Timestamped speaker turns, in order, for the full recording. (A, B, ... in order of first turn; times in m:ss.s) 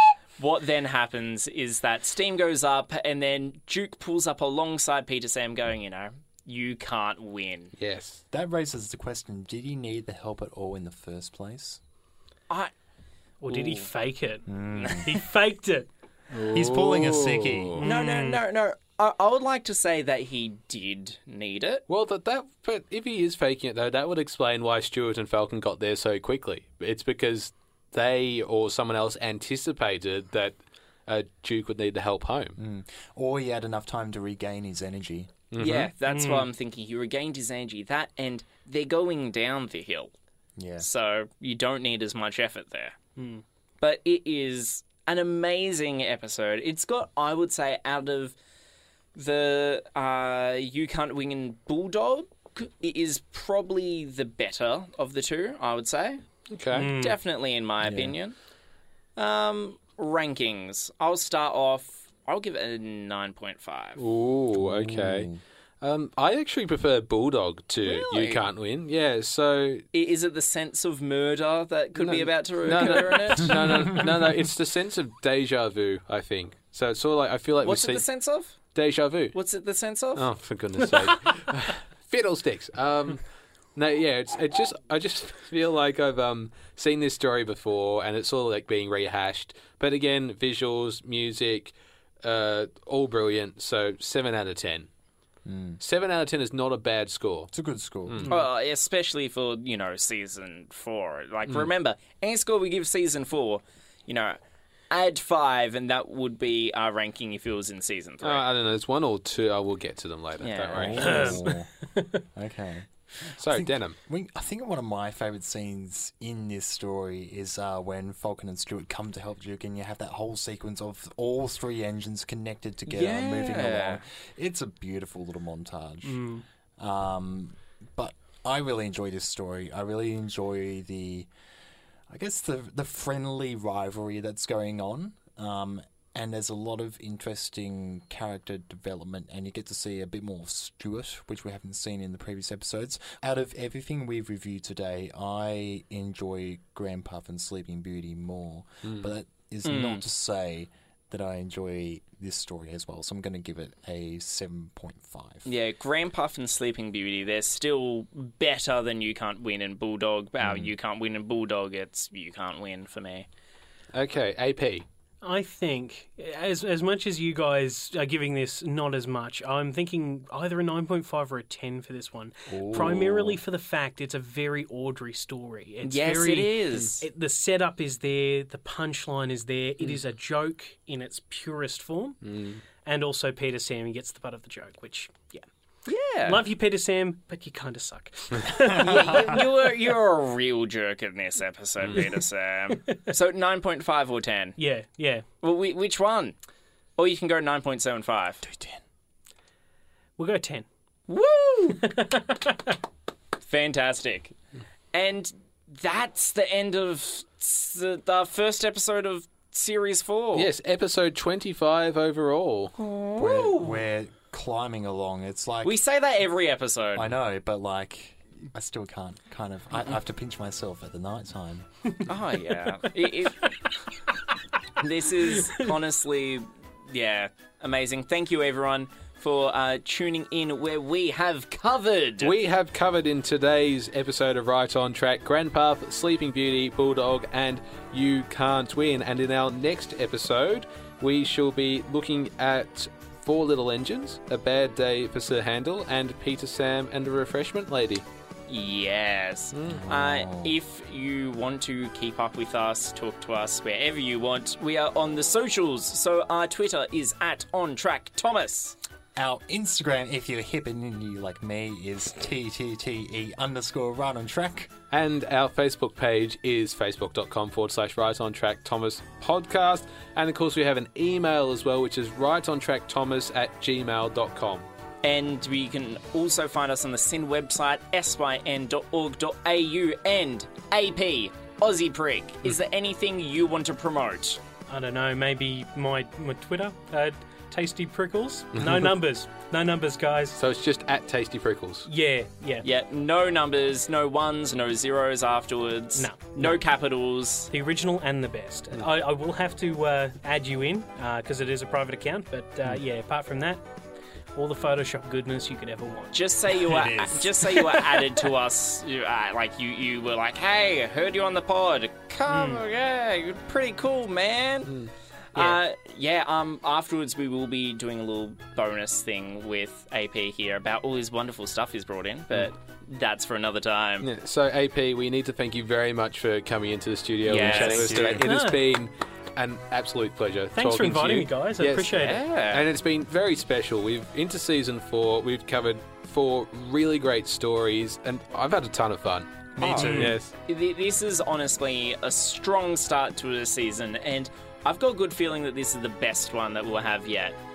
0:00.4-0:07.7 A
0:07.8-0:08.2 B
0:08.3-0:11.8 C
0:13.4-0:15.9 D
0:13.5-0:13.9 A
0:14.4-0:15.3 C
0:16.3-0:17.8 B
0:16.4-0:17.8 C
0:17.8-0:18.4 D
0:17.8-0:21.8 A
0:21.9-0:32.6 B
0:32.6-0:35.3 C
0:35.5-0:35.9 B
0:35.6-0:40.1 A
0:36.0-0:36.5 D
0:40.6-0:40.9 C
0:40.8-0:43.0 A
0:43.2-0:43.4 D
0:43.8-0:48.4 A
0:49.1-0:56.2 A
0:56.5-0:56.9 B
0:56.7-0:57.2 D
0:56.8-0:58.4 A
0:57.8-0:58.1 C
0:59.2-1:04.0 A
1:04.0-1:05.3 B
1:04.6-1:05.4 C
1:05.8-1:09.8 B
1:07.8-1:08.5 A
1:09.9-1:13.7 A
1:12.0-1:18.0 B
1:13.4-1:14.2 C
1:17.6-1:18.6 A
1:18.7-1:19.4 B
1:19.3-1:20.3 A
1:20.1-1:23.2 B
1:23.8-1:34.9 B
1:35.4-1:35.8 C
1:35.8-1:37.5 B
1:37.5-1:38.3 C
1:38.1-1:38.4 B
1:38.3-1:44.4 A
1:44.9-1:48.4 A
1:48.2-1:51.4 B
1:50.4-1:51.3 A
1:50.7-1:51.7 C
1:51.0-1:52.2 D
1:52.3-1:52.9 C
1:53.4-1:54.0 B
1:53.4-2:06.2 C
2:02.8-2:04.0 A
2:06.0-2:06.4 D
2:06.8-2:11.3 C
2:12.1-2:35.4 C
2:29.6-2:30.0 A
2:35.4-2:43.2 A
2:40.4-2:40.7 C
2:43.9-2:44.8 B
2:45.2-3:02.2 D
2:52.5-2:53.4 C
2:55.8-2:57.0 A
3:02.2-3:02.6 B
3:02.8-3:05.4 D
3:05.8-3:06.4 A
3:06.2-3:09.4 D
3:08.7-3:09.2 C
3:08.7-3:14.6 A
3:12.7-3:13.0 D
3:14.6-3:15.2 D
3:15.4-3:16.4 A
3:17.0-3:18.4 A
3:18.4-3:18.8 C
3:20.2-3:20.6 D
3:21.1-3:21.9 A
3:21.8-3:22.7 D
3:23.4-3:24.3 A
3:24.9-3:30.5 A
3:30.3-3:32.7 B
3:32.8-3:33.8 A
3:33.2-3:35.8 C
3:35.6-3:37.1 A
3:36.9-3:41.7 C
3:42.0-3:43.6 A
3:44.8-3:52.3 A
3:52.2-4:08.0 B
4:08.5-4:18.8 A
4:09.5-4:09.8 B
4:09.7-4:10.6 C
4:19.2-4:24.7 C
4:24.9-4:34.6 B
4:35.0-4:44.4 A
4:44.7-4:50.4 D
4:48.5-4:48.9 B
4:50.4-4:51.9 B
4:51.8-4:52.6 D
4:52.6-4:57.5 A
4:56.0-4:56.2 D
4:57.5-5:03.6 D
5:04.3-5:06.2 D
5:06.1-5:14.8 A
5:06.7-5:07.8 C
5:14.7-5:15.6 B
5:15.3-5:24.1 A
5:24.0-5:40.3 B
5:27.2-5:28.1 A
5:27.3-5:28.3 C
5:28.2-5:28.6 D
5:30.5-5:32.2 D
5:31.9-5:32.6 A
5:39.6-5:40.2 C
5:39.6-5:47.4 A
5:39.8-5:40.1 D